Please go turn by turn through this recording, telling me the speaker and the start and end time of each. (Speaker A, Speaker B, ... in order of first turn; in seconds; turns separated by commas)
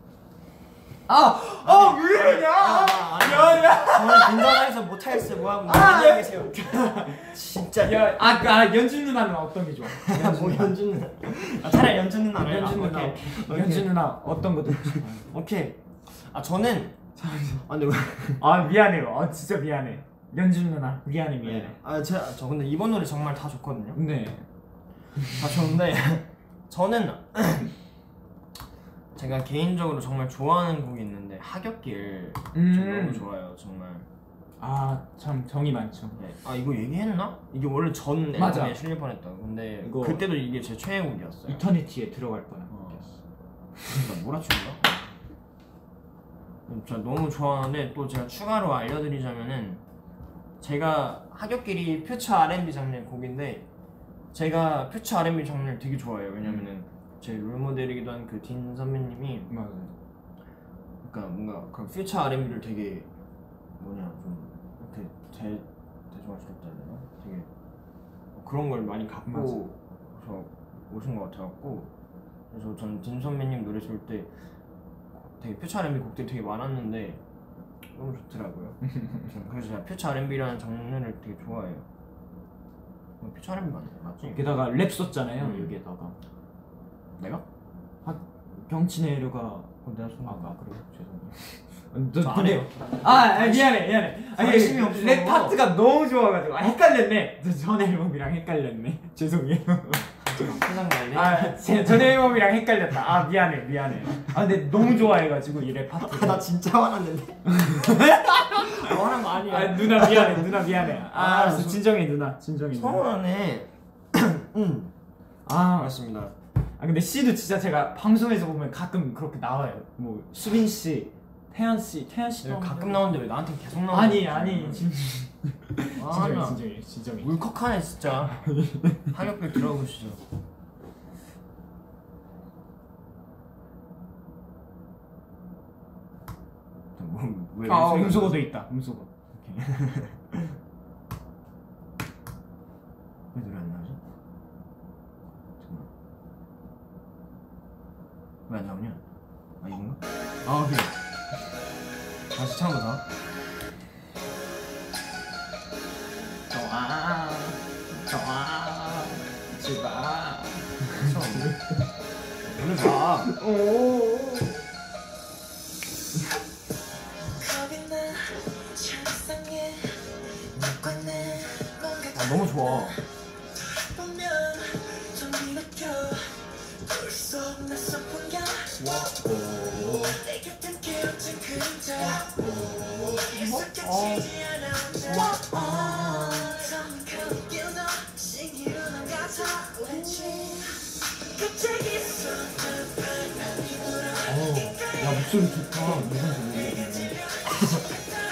Speaker A: 1.1-4.7, Speaker B: 1.6-8.2, Speaker A: 5.6-10.8, Speaker B: 10.0-14.1, Speaker A: 12.4-15.2, Speaker B: 14.7-17.1, Speaker A: 17.2-17.6, Speaker B: 17.6-18.4, Speaker A: 18.4-21.8, Speaker B: 21.4-24.0, Speaker A: 23.9-24.5, Speaker B: 25.3-27.7, Speaker B: 29.1-34.1, Speaker A: 32.5-33.3, Speaker A: 34.6-36.2, Speaker B: 36.2-41.7, Speaker A: 38.4-38.8, Speaker A: 39.8-40.3, Speaker A: 41.5-43.1, Speaker B: 42.7-43.1, Speaker B: 43.9-45.1, Speaker B: 46.7-49.8, Speaker B: 50.6-53.7, Speaker B: 54.3-59.5, Speaker A: 59.5-59.9, Speaker B: 61.0-63.1, Speaker B: 63.8-67.5, Speaker B: 68.3-71.9, Speaker A: 69.3-69.6, Speaker B: 72.5-74.3, Speaker B: 75.1-77.2, Speaker B: 77.9-81.9, Speaker A: 78.9-79.3, Speaker B: 83.2-84.5, Speaker A: 84.2-86.2, Speaker B: 85.4-85.8, Speaker B: 87.2-87.4, Speaker A: 88.0-100.6, Speaker B: 89.8-90.5, Speaker B: 92.2-95.7, Speaker B: 100.2-102.2, Speaker A: 101.1-106.5, Speaker B: 106.0-108.0, Speaker A: 107.5-113.0, Speaker B: 108.6-111.9, Speaker B: 112.7-114.9, Speaker A: 115.5-116.0, Speaker B: 115.7-116.3, Speaker A: 116.8-123.1, Speaker B: 122.4-124.9, Speaker A: 123.9-127.3, Speaker B: 126.0-126.6, Speaker B: 127.2-128.5, Speaker A: 128.4-129.1, Speaker B: 129.1-130.2, Speaker B: 136.9-138.5, Speaker A: 137.7-139.1, Speaker B: 139.3-140.6, Speaker B: 143.3-144.0, Speaker B: 145.6-145.9, Speaker B: 148.5-149.0, Speaker B: 149.6-151.0, Speaker B: 152.3-153.1, Speaker A: 156.5-161.7, Speaker B: 160.9-161.6, Speaker B: 162.5-163.3, Speaker A: 163.2-164.6, Speaker C: 167.4-170.0, Speaker C: 170.8-172.2, Speaker B: 172.1-173.0, Speaker C: 173.7-176.3, Speaker C: 176.9-178.8, Speaker A: 178.8-180.2, Speaker C: 180.1-182.2, Speaker A: 182.2-184.3, Speaker C: 183.1-190.7, Speaker B: 183.3-184.2, Speaker A: 185.1-186.5, Speaker B: 190.1-190.4, Speaker C: 191.3-194.2, Speaker A: 194.2-197.2, Speaker C: 197.8-198.1